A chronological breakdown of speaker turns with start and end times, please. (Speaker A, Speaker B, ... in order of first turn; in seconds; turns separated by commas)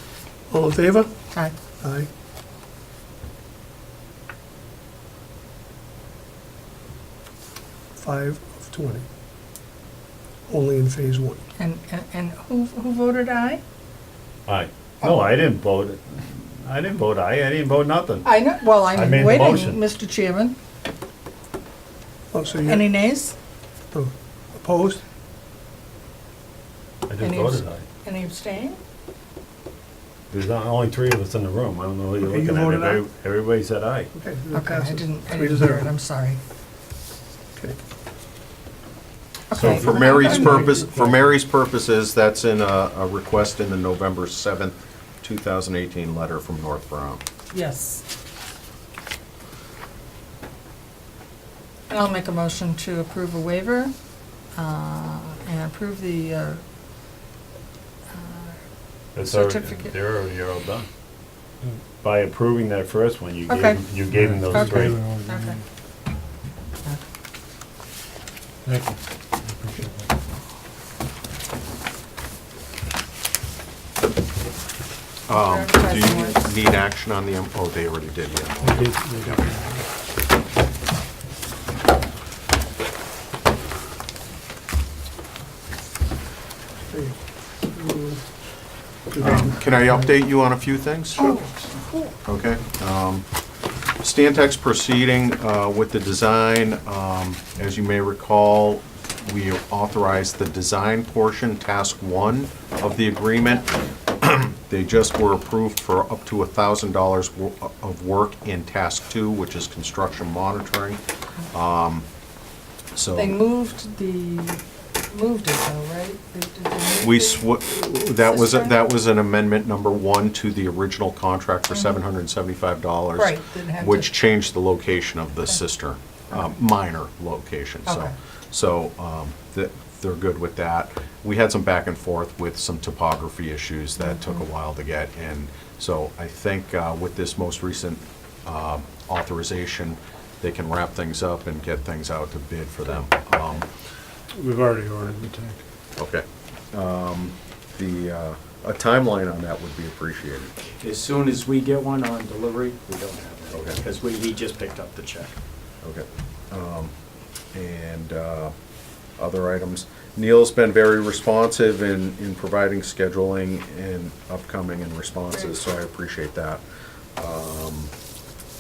Speaker A: 0.5-1.1, Speaker A: 1.8-2.1, Speaker A: 8.0-9.0, Speaker A: 10.5-11.4, Speaker B: 11.6-13.6, Speaker C: 14.5-18.3, Speaker B: 18.2-20.6, Speaker C: 18.9-19.8, Speaker A: 22.3-22.9, Speaker B: 22.6-23.3, Speaker A: 23.9-25.0, Speaker C: 27.1-27.8, Speaker B: 27.2-28.8, Speaker C: 30.3-34.1, Speaker A: 32.2-33.0, Speaker A: 34.1-35.9, Speaker B: 34.5-36.4, Speaker B: 39.5-40.8, Speaker D: 39.5-47.2, Speaker A: 39.6-41.2, Speaker B: 47.5-48.0, Speaker B: 51.9-53.9, Speaker B: 54.5-56.6, Speaker B: 58.1-58.6, Speaker B: 59.1-59.9, Speaker C: 59.1-60.9, Speaker C: 62.0-65.0, Speaker B: 63.5-63.9, Speaker E: 64.1-65.6, Speaker B: 64.4-65.6, Speaker E: 68.7-70.0, Speaker D: 75.3-79.6, Speaker B: 75.3-76.4, Speaker E: 78.6-79.6, Speaker A: 86.9-87.2, Speaker A: 87.7-88.2, Speaker A: 89.1-89.7, Speaker D: 89.2-91.4, Speaker B: 91.2-92.2, Speaker D: 92.2-93.2, Speaker D: 94.0-111.0, Speaker D: 111.5-112.0, Speaker D: 112.9-113.4, Speaker B: 113.1-117.5, Speaker D: 117.0-143.7, Speaker B: 118.2-118.9, Speaker B: 121.7-122.0, Speaker B: 123.2-124.1, Speaker B: 127.9-128.1, Speaker B: 134.0-134.4, Speaker E: 144.3-145.6, Speaker D: 146.0-150.6, Speaker F: 150.8-155.3, Speaker D: 153.5-153.8, Speaker D: 155.8-156.9, Speaker D: 157.5-158.5, Speaker D: 159.2-166.6, Speaker D: 167.2-167.9